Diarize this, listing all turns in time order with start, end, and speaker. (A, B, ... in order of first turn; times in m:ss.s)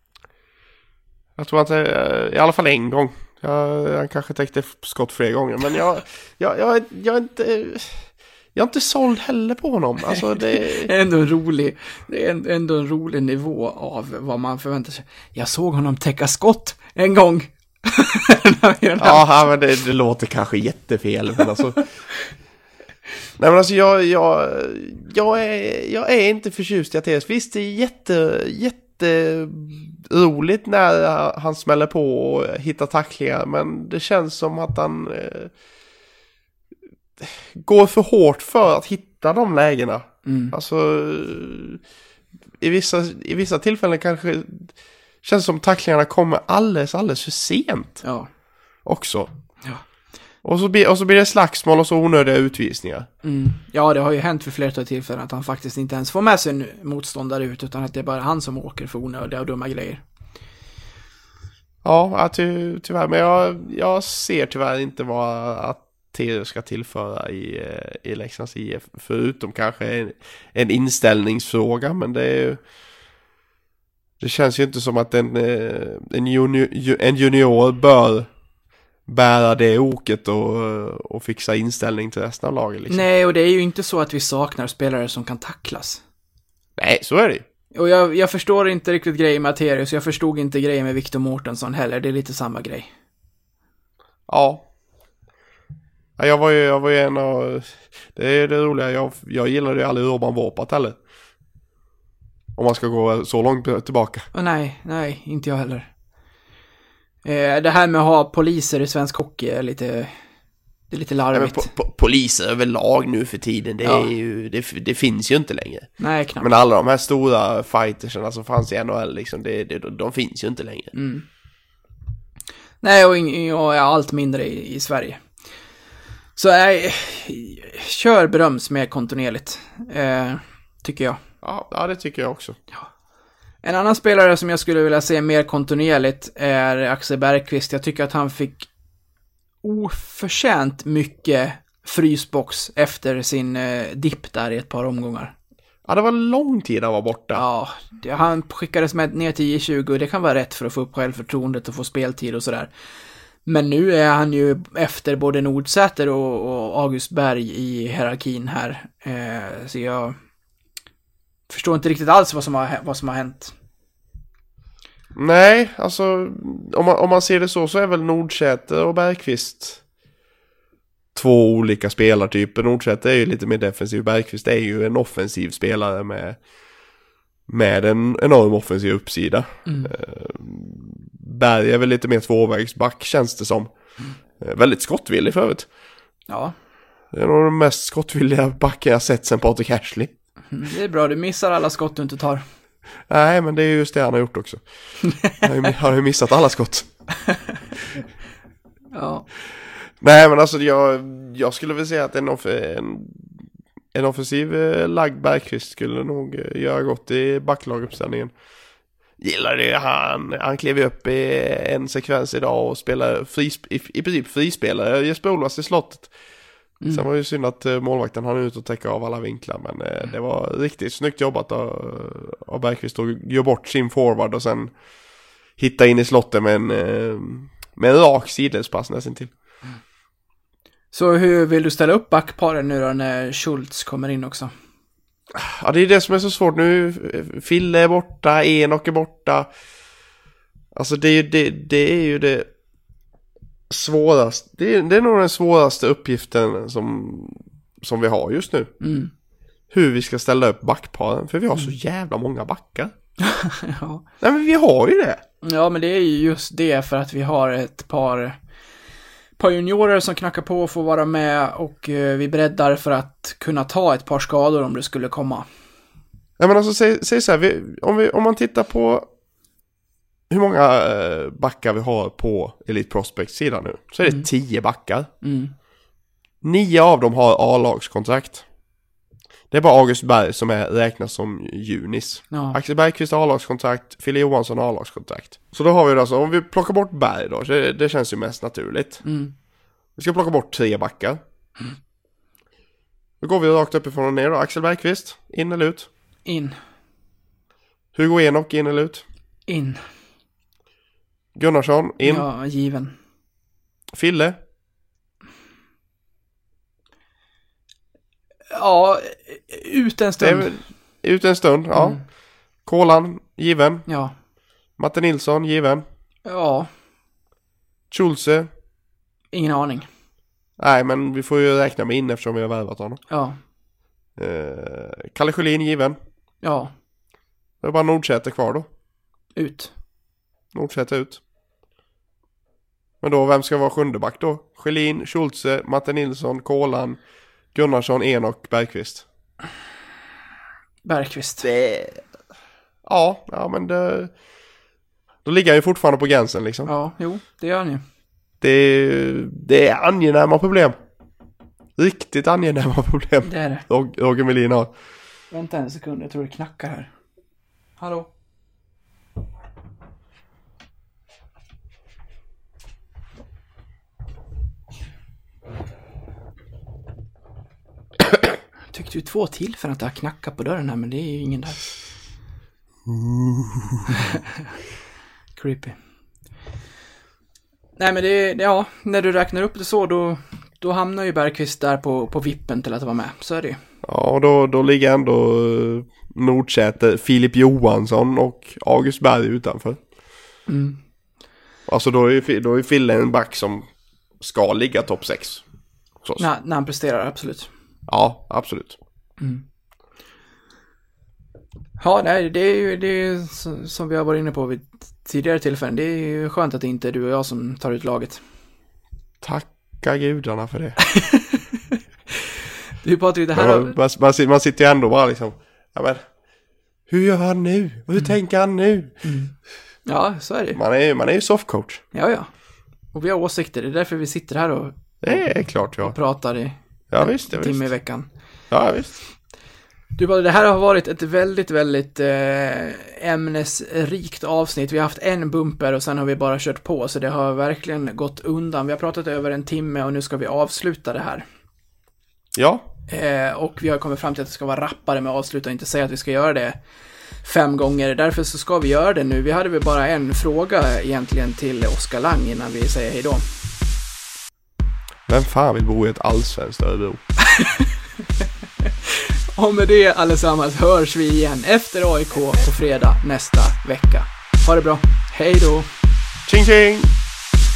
0:01.4-0:10.9 A
0:10.6-0:19.3 B
0:19.0-0:21.8 A
0:23.4-0:35.5 A
0:37.2-0:41.8 A
0:40.2-0:40.6 B
0:42.6-0:48.0 A
0:48.0-0:48.3 B
0:48.9-0:49.3 A
0:50.4-0:53.1 A
0:53.2-1:00.0 B
1:01.8-1:12.6 A
1:14.2-1:18.3 A
1:19.1-1:23.0 A
1:22.9-1:26.0 B
1:26.8-1:27.4 A
1:27.8-1:32.9 B
1:34.3-1:34.7 A
1:36.2-1:41.0 A
1:42.6-1:44.3 A
1:44.3-1:45.9 B
1:47.2-1:50.1 B
1:50.9-1:51.7 B
1:51.3-2:00.9 A
1:53.8-1:54.1 B
1:56.0-1:56.5 B
2:00.9-2:01.2 B
2:02.8-2:05.2 B
2:06.4-2:11.2 B
2:11.4-2:12.6 A
2:13.6-2:18.7 B
2:19.6-2:25.3 B
2:25.9-2:27.4 A
2:27.3-2:32.7 B
2:33.5-2:40.2 B
2:41.5-2:43.5 B
2:45.2-2:49.8 A
2:51.2-2:56.4 A
2:57.5-3:03.7 A
2:59.7-2:59.9 B
3:04.4-3:05.7 A
3:06.3-3:06.5 B
3:07.1-3:10.1 A
3:10.5-3:12.4 B
3:13.1-3:14.6 A
3:15.3-3:16.9 A
3:18.9-3:19.3 B
3:20.0-3:23.3 A
3:23.9-3:28.3 A
3:29.2-3:36.1 A
3:36.9-3:44.7 A
3:45.6-3:49.3 A
3:50.9-3:54.5 B
3:55.3-3:59.5 A
4:00.7-4:02.5 A
4:03.7-4:08.7 A
4:08.8-4:09.1 B
4:09.7-4:12.9 A
4:13.2-4:14.0 B
4:14.2-4:15.2 A
4:15.4-4:18.4 B
4:19.4-4:25.5 B
4:26.4-4:29.1 A
4:30.3-4:35.1 A
4:35.2-4:35.5 B
4:36.4-4:38.4 A
4:39.5-4:49.0 A
4:42.3-4:42.6 B
4:49.0-4:49.3 B
4:50.0-4:51.2 A
4:53.2-4:55.9 A
4:56.3-4:56.6 B
4:57.9-4:59.0 A
4:59.5-4:59.8 B
5:01.4-5:02.3 A
5:02.0-5:03.0 B
5:03.9-5:04.4 A
5:08.5-5:10.5 B
5:10.2-5:12.0 A
5:11.7-5:12.0 B
5:12.6-5:13.9 A
5:13.9-5:14.1 B
5:14.8-5:15.8 A
5:16.3-5:16.7 B
5:17.9-5:18.5 A
5:19.3-5:19.9 B
5:20.6-5:23.0 A
5:23.1-5:23.4 B
5:24.2-5:26.0 A
5:26.4-5:26.7 B
5:27.6-5:28.7 A
5:29.4-5:29.7 B
5:30.5-5:31.2 A
5:33.0-5:37.0 A
5:37.5-5:39.0 A
5:40.8-5:41.5 B
5:41.4-5:42.0 A
5:42.8-5:44.1 A
5:45.2-5:46.7 A
5:46.7-5:47.8 B
5:48.4-5:50.8 A
5:51.8-5:54.7 A
5:53.2-5:53.7 B
5:55.3-5:56.9 B
5:57.8-5:58.1 B
6:08.7-6:11.6 B
6:12.9-6:13.8 A
6:13.9-6:14.4 B
6:15.4-6:15.8 B
6:17.8-6:23.6 B
6:23.8-6:29.8 A
6:30.5-6:30.8 B
6:31.7-6:33.7 A
6:34.2-6:35.4 A
6:36.2-6:37.5 B
6:37.9-6:38.8 A
6:39.2-6:39.4 B
6:41.8-6:48.2 B
6:49.2-6:50.8 A
6:50.9-6:51.8 B
6:52.8-6:53.8 B
6:53.3-6:56.1 A
6:56.9-6:59.0 A
6:59.0-6:59.3 B
6:59.9-7:00.6 B
7:00.5-7:01.8 A
7:01.9-7:02.3 B
7:02.9-7:05.3 B
7:05.0-7:06.0 A
7:05.8-7:08.1 B
7:06.9-7:07.7 A
7:08.5-7:09.0 A
7:10.0-7:21.2 B
7:22.4-7:22.7 A
7:22.9-7:26.6 B
7:27.2-7:33.2 B
7:35.1-7:37.0 A
7:37.2-7:37.7 B
7:38.6-7:45.7 B
7:46.3-7:46.9 A